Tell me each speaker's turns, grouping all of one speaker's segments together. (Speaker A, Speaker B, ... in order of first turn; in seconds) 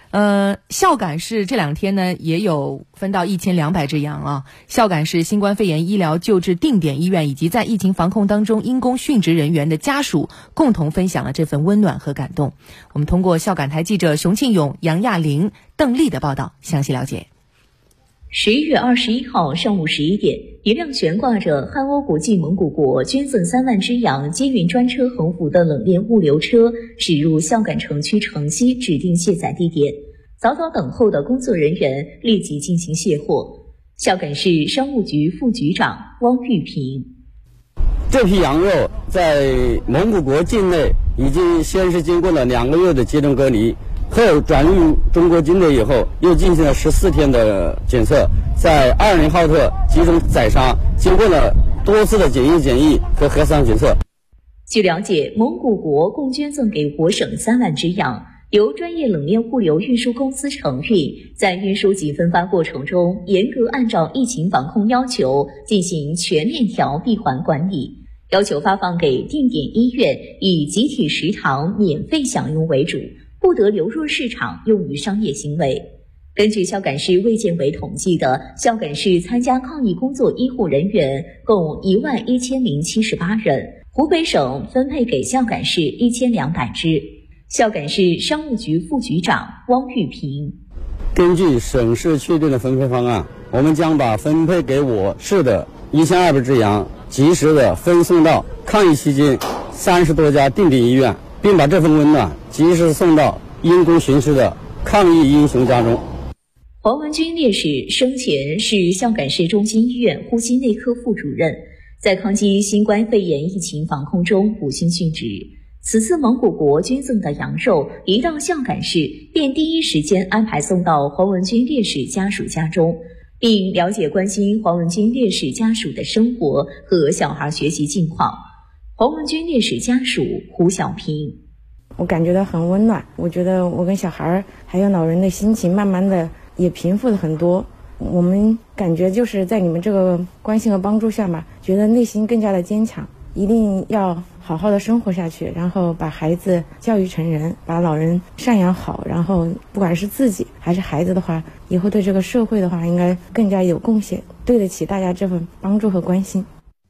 Speaker A: 0.1-17.3
Speaker B: 18.3-37.1, 54.7-90.6, 106.8-128.4, 129.0-131.4
Speaker C: 38.1-54.0, 91.1-106.0
Speaker D: 132.0-156.5